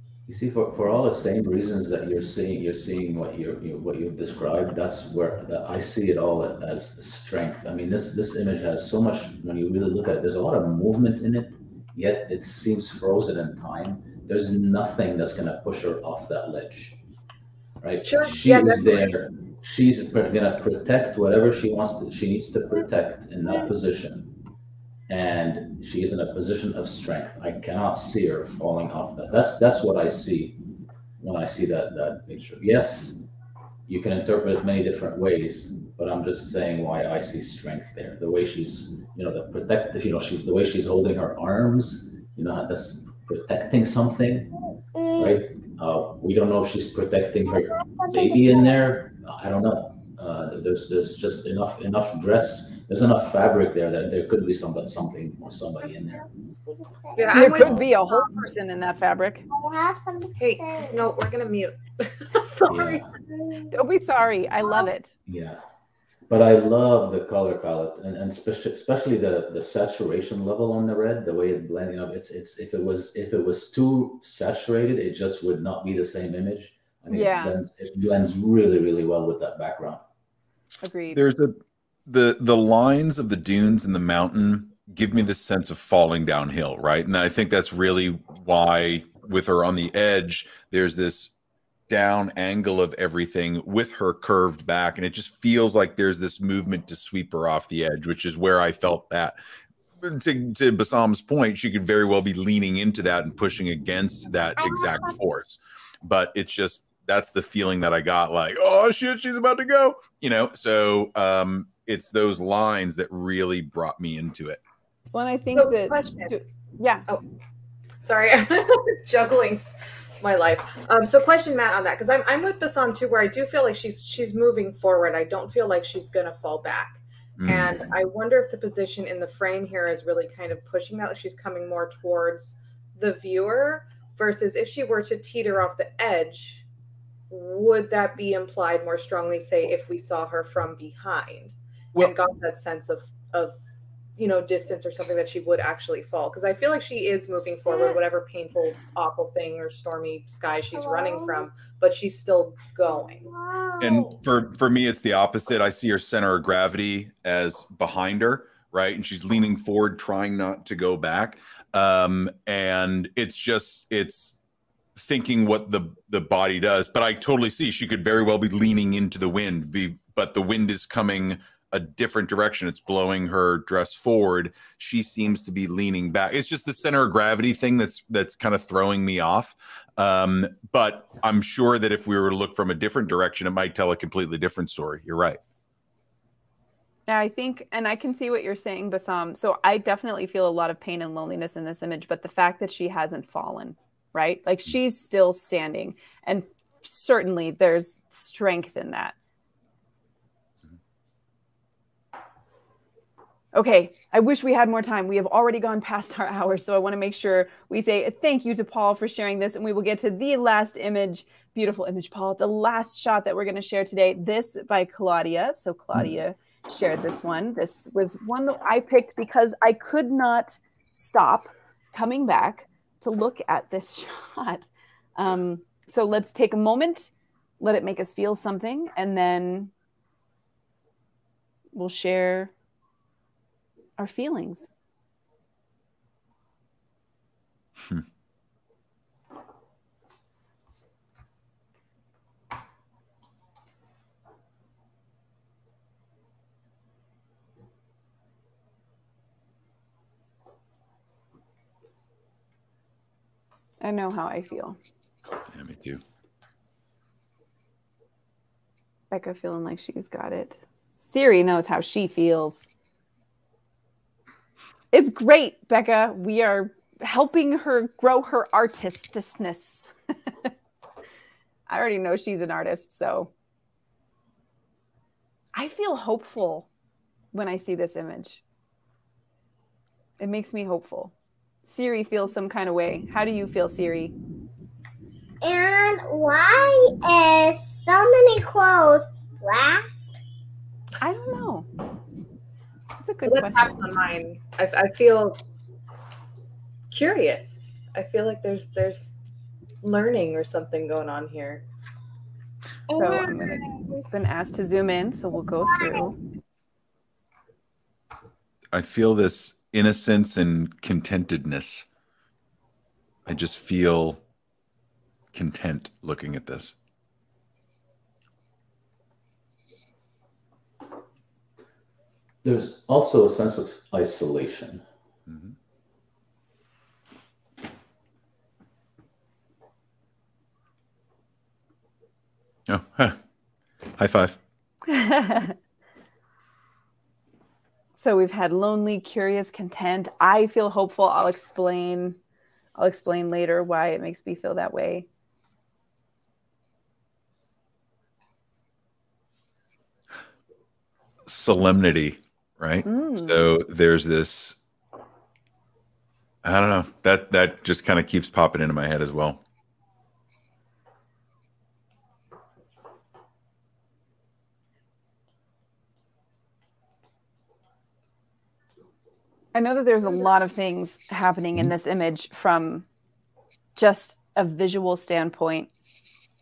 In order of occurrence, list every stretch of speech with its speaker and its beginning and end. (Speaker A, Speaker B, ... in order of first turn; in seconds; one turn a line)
Speaker A: 0.3-17.0
Speaker A: 17.8-24.3
Speaker B: 18.0-19.1
Speaker A: 25.1-30.6
Speaker A: 31.2-33.3
Speaker A: 33.9-44.5
Speaker C: 44.9-45.4
Speaker A: 45.2-56.2
Speaker C: 47.6-48.8
Speaker C: 56.7-57.7
Speaker B: 57.2-58.0
Speaker D: 57.3-59.4
Speaker C: 59.5-61.0
Speaker B: 60.4-63.1
Speaker A: 62.7-63.1
Speaker C: 63.3-63.7
Speaker D: 63.7-65.1
Speaker A: 65.3-65.6
Speaker A: 66.3-80.0
Speaker D: 77.1-77.6
Speaker D: 80.8-81.2
Speaker E: 81.1-91.3
Speaker E: 91.9-99.4
Speaker E: 100.0-114.6
Speaker C: 104.6-104.9
Speaker D: 115.1-117.1
Speaker B: 115.5-116.3
Speaker B: 118.0-119.6
Speaker B: 120.2-136.7
Speaker E: 127.4-127.7
Speaker B: 137.3-143.6
Speaker B: 144.2-153.3
Speaker C: 147.7-148.0
Speaker C: 150.8-151.5
Speaker C: 152.9-154.1
Speaker E: 153.8-164.4
Speaker E: 165.0-185.4
Speaker D: 187.1-199.2
Speaker D: 203.5-229.7
Speaker D: 231.7-232.5
Speaker D: 234.0-234.7
Speaker D: 253.8-254.8
Speaker E: 255.5-256.0
Speaker D: 259.1-262.7
Speaker D: 264.9-269.9
Speaker D: 271.7-273.3
Speaker D: 275.6-276.7
Speaker D: 277.3-278.4
Speaker D: 280.2-281.1
Speaker D: 281.6-284.1
Speaker C: 285.4-289.9
Speaker D: 291.0-291.7
Speaker D: 293.0-293.8
Speaker B: 293.3-295.4
Speaker B: 296.9-299.2
Speaker B: 299.8-301.6
Speaker C: 302.9-304.0
Speaker D: 302.9-306.2
Speaker C: 305.7-306.1
Speaker E: 308.7-311.9
Speaker E: 313.3-314.2
Speaker E: 315.3-316.7
Speaker A: 322.4-324.8
Speaker E: 325.3-325.6
Speaker E: 332.7-333.2
Speaker E: 334.0-334.4
Speaker D: 334.9-335.6
Speaker D: 338.0-342.2
Speaker D: 342.8-345.1
Speaker E: 351.3-354.6
Speaker D: 352.9-353.4
Speaker E: 356.4-359.4
Speaker D: 369.5-372.9
Speaker D: 373.8-375.7